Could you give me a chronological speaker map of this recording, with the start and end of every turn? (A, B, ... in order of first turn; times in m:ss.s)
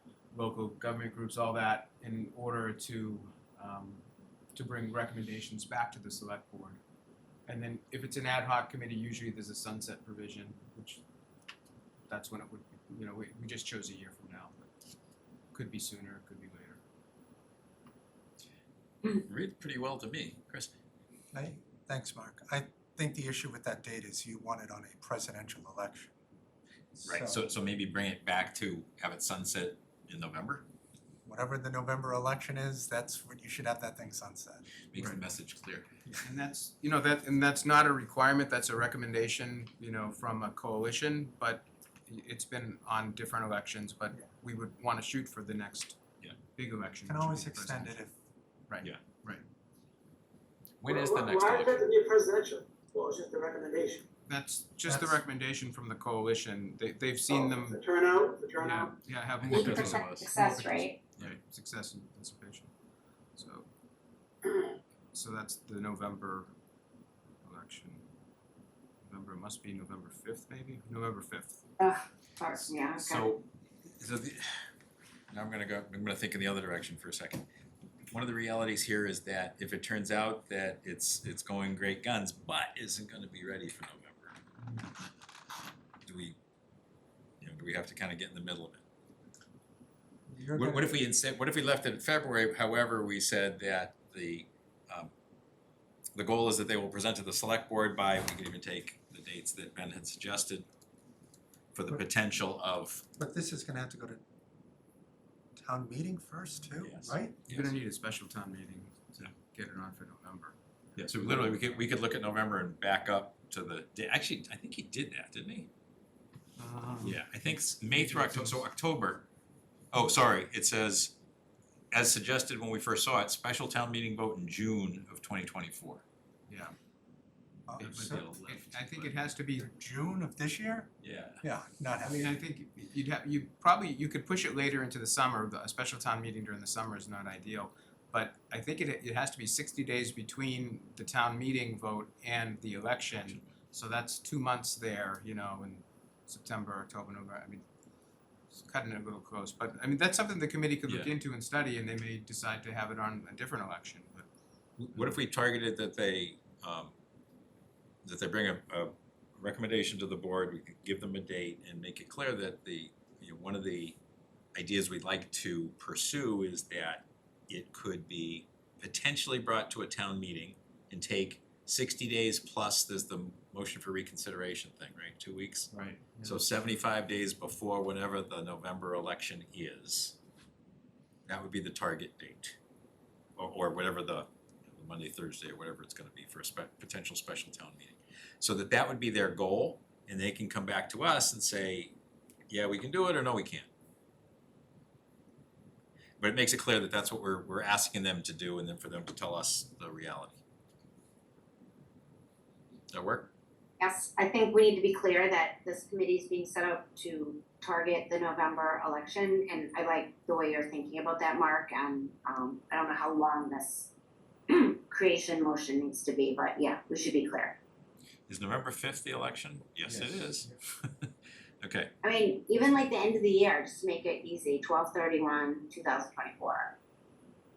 0:00.3-0:06.8 A
0:07.5-0:11.0 A
0:12.1-0:14.7 A
0:15.5-0:16.8 A
0:19.0-0:20.7 B
0:21.3-0:26.1 C
0:27.0-0:27.4 C
0:27.0-0:30.7 B
0:31.2-0:34.6 C
0:34.9-0:35.9 B
0:35.0-0:35.2 A
0:36.2-0:48.0 A
0:47.0-0:48.1 C
0:48.7-0:49.4 A
0:50.8-0:51.9 B
0:50.8-0:54.1 D
0:54.2-0:57.8 A
0:54.9-0:55.2 C
0:57.3-0:58.9 D
0:58.6-1:02.7 A
0:59.4-1:00.3 B
0:59.5-1:01.0 E
1:03.3-1:03.7 A
1:05.1-1:06.5 A
1:07.4-1:08.0 A
1:09.0-1:11.6 A
1:11.8-1:13.3 E
1:12.9-1:13.4 B
1:14.0-1:14.7 B
1:15.3-1:17.4 B
1:18.1-1:24.4 B
1:26.0-1:26.4 B
1:27.4-1:28.8 B
1:30.3-1:31.0 C
1:30.5-1:35.1 B
1:36.2-1:40.6 B
1:41.7-1:43.0 B
1:43.2-1:44.2 C
1:45.6-1:47.4 C
1:46.8-1:47.8 B
1:47.5-1:51.8 A
1:51.0-1:55.7 B
1:56.6-1:57.2 A
1:57.0-1:59.2 B
1:57.9-1:58.6 A
1:59.9-2:01.2 B
2:01.9-2:06.0 B
2:06.5-2:06.7 A
2:07.7-2:08.2 C
2:07.8-2:09.7 A
2:07.8-2:09.1 B
2:09.6-2:12.3 C
2:11.0-2:11.4 B
2:12.0-2:27.6 A
2:23.1-2:23.4 B
2:28.5-2:34.3 A
2:34.8-2:36.9 B
2:38.0-2:44.0 B
2:44.5-2:55.7 B
2:55.7-2:56.4 A
2:56.2-3:00.2 B
3:01.3-3:02.6 B
3:03.4-3:11.9 B
3:12.5-3:13.7 B
3:16.2-3:20.4 B
3:22.9-3:23.3 B
3:23.8-3:33.9 E
3:34.5-3:37.6 E
3:38.3-3:40.5 B
3:39.9-3:40.3 A
3:41.6-3:41.9 B
3:42.0-3:46.7 E